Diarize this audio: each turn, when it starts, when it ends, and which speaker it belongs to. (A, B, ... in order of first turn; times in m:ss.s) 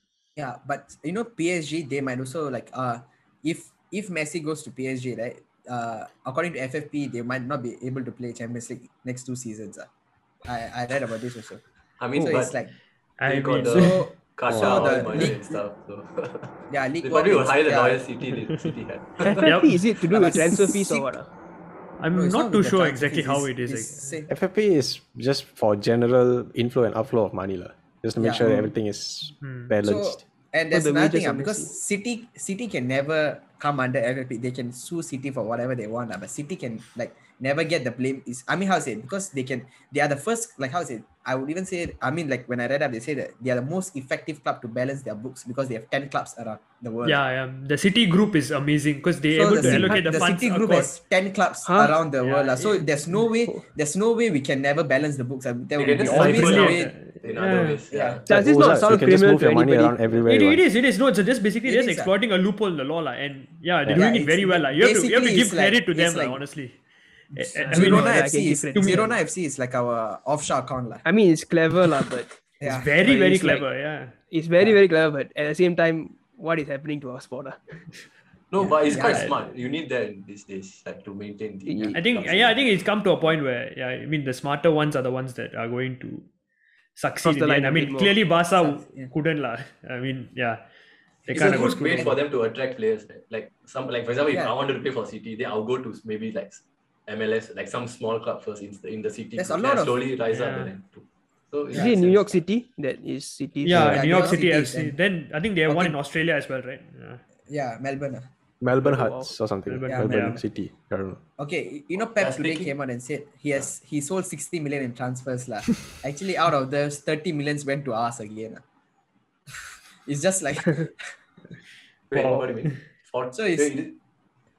0:00.4-0:09.9 A
0:10.4-0:12.7 A
0:12.0-0:12.6 B
0:13.2-0:14.1 C
0:13.2-0:19.5 B
0:13.6-0:15.6 A
0:14.5-0:15.4 D
0:16.7-0:18.0 A
0:19.2-0:21.3 E
0:19.4-0:19.8 C
0:20.1-0:21.1 A
0:22.0-0:24.2 C
0:22.1-0:24.3 A
0:24.3-0:30.3 D
0:28.2-0:28.5 A
0:28.4-0:28.7 E
0:29.4-0:29.7 C
0:29.8-0:47.2 A
0:30.7-0:31.7 E
0:47.0-0:50.9 C
0:49.3-0:56.9 A
0:49.6-0:50.0 D
0:51.6-0:52.0 E
0:52.2-0:52.9 C
0:55.8-0:58.3 B
0:56.1-0:57.8 C
0:57.9-0:58.2 A
0:58.3-1:00.0 E
0:58.3-1:00.6 D
1:00.3-1:06.8 C
1:01.7-1:02.1 A
1:03.8-1:04.1 D
1:03.9-1:06.4 A
1:07.3-1:11.0 A
1:07.4-1:09.1 C
1:07.6-1:09.2 E
1:11.0-1:12.4 E
1:12.6-1:12.9 A
1:12.6-1:14.2 C
1:13.0-1:13.7 E
1:14.3-1:18.0 E
1:18.5-1:22.6 B
1:18.9-1:19.3 A
1:19.0-1:19.3 C
1:21.7-1:22.0 E
1:22.0-1:26.3 C
1:27.0-1:30.6 C
1:27.2-1:28.2 E
1:28.6-1:29.1 A
1:31.3-1:32.2 C
1:31.3-1:42.4 B
1:31.3-1:32.1 A
1:39.4-1:40.0 A
1:40.3-1:40.7 C
1:41.7-1:44.4 E
1:43.6-1:47.2 C
1:43.7-1:44.1 D
1:43.7-1:45.0 A
1:45.7-1:46.0 A
1:47.5-1:48.3 A
1:48.6-1:51.2 D
1:48.8-1:49.3 E
1:49.6-1:50.4 C
1:49.9-1:50.4 A
1:51.4-1:58.6 A
1:52.1-1:52.7 B
2:00.1-2:01.1 A
2:02.1-2:04.0 B
2:02.1-2:02.8 C
2:03.3-2:03.7 A